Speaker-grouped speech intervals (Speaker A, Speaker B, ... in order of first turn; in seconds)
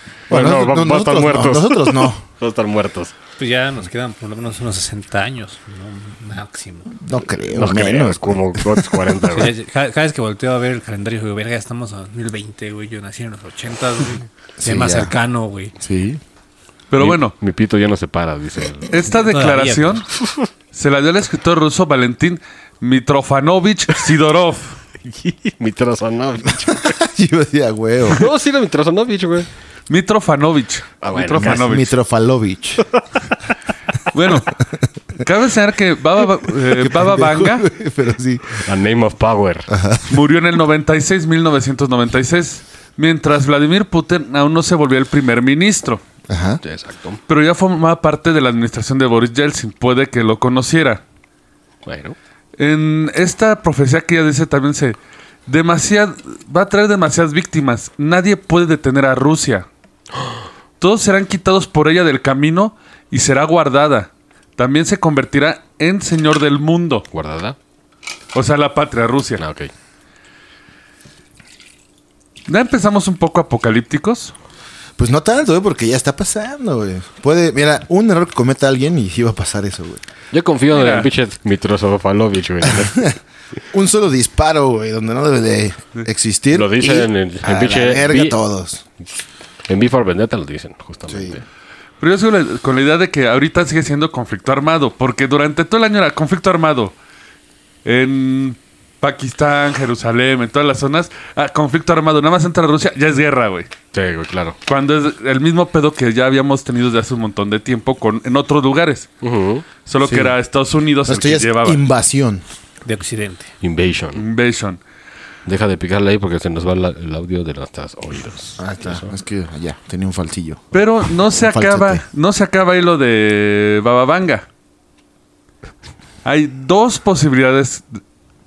Speaker A: 0.3-2.2, 7.0-9.3, 14.6-15.1, 15.8-16.2, 26.8-28.3, 31.3-32.8, 36.7-38.6, 39.7-40.2, 46.3-46.6, 75.0-80.0, 83.7-88.8, 91.1-91.4, 110.0-110.3, 111.0-112.4, 118.6-120.7, 121.4-122.0
Speaker B: 0.3-3.1, 7.5-9.5, 17.0-19.0, 20.2-20.5, 25.0-27.0, 28.1-29.5, 31.0-31.7, 38.6-39.7, 46.6-47.2, 51.8-52.1, 67.1-67.6, 69.4-69.7, 80.3-83.1, 86.5-88.4, 89.7-91.4, 103.9-104.6, 109.2-109.7, 113.6-114.2, 115.5-119.1
Speaker C: 3.4-7.0, 9.3-15.7, 19.2-20.0, 112.8-113.5
Speaker D: 16.9-17.3, 18.9-20.1, 20.7-24.8, 29.9-31.9, 34.1-34.6, 35.2-37.6, 40.0-46.0, 47.3-51.0, 52.6-59.7, 60.8-67.1, 68.3-69.4, 72.5-74.3, 80.7-81.1, 92.0-96.9, 97.8-103.7, 104.7-109.1, 109.8-111.8, 114.1-114.8, 120.7-124.5, 126.2-127.8